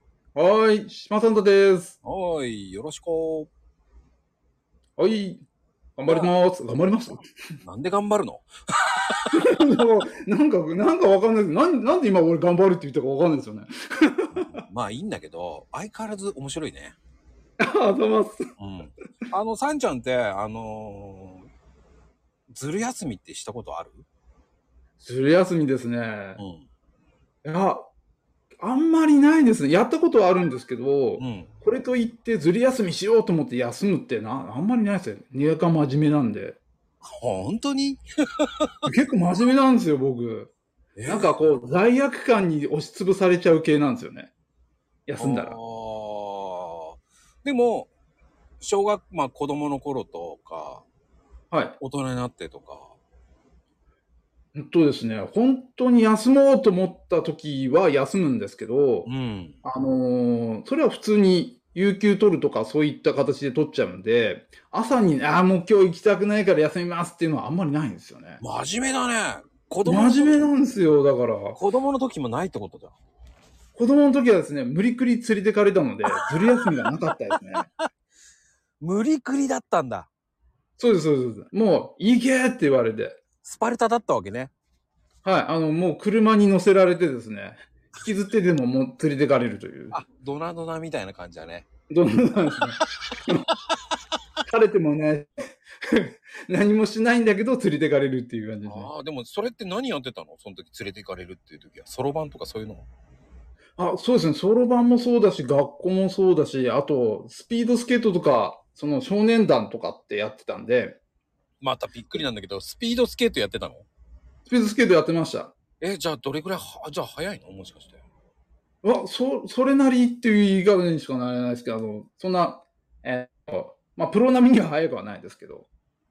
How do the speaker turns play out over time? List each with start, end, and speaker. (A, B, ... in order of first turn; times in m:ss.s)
0:00.3-0:02.0 A
0:02.0-0:03.5 B
0:05.0-0:05.4 A
0:06.0-0:07.3 A
0:06.0-0:06.3 B
0:07.6-0:09.6 B
0:09.3-0:14.6 A
0:14.3-0:17.0 B
0:17.6-0:18.5 A
0:18.6-0:21.5 B
0:22.5-0:24.0 B
0:25.0-0:26.4 A
0:26.4-0:26.6 B
0:27.4-0:27.9 A
0:28.6-0:36.6 A
0:31.2-0:31.5 B
0:37.0-0:38.7 B
0:38.8-0:40.5 A
0:41.0-0:41.3 B
0:41.1-0:44.3 A
0:45.0-0:45.6 A
0:45.2-0:47.9 B
0:48.6-0:50.8 B
0:51.5-0:51.8 A
0:51.8-0:52.9 B
0:54.5-0:59.1 A
0:59.0-0:59.6 B
0:59.6-1:08.4 A
1:08.4-1:10.5 B
1:09.8-1:11.6 A
1:11.5-1:12.9 B
1:13.8-1:17.7 A
1:16.1-1:16.9 B
1:18.8-1:20.1 B
1:20.8-1:23.2 A
1:23.4-1:24.5 B
1:25.2-1:30.0 A
1:29.9-1:31.7 B
1:31.9-1:33.5 A
1:34.5-1:38.9 A
1:38.6-1:42.8 B
1:43.8-1:51.0 A
1:51.6-1:53.9 B
1:54.5-1:55.5 A
1:55.8-1:58.0 B
1:58.8-2:05.7 A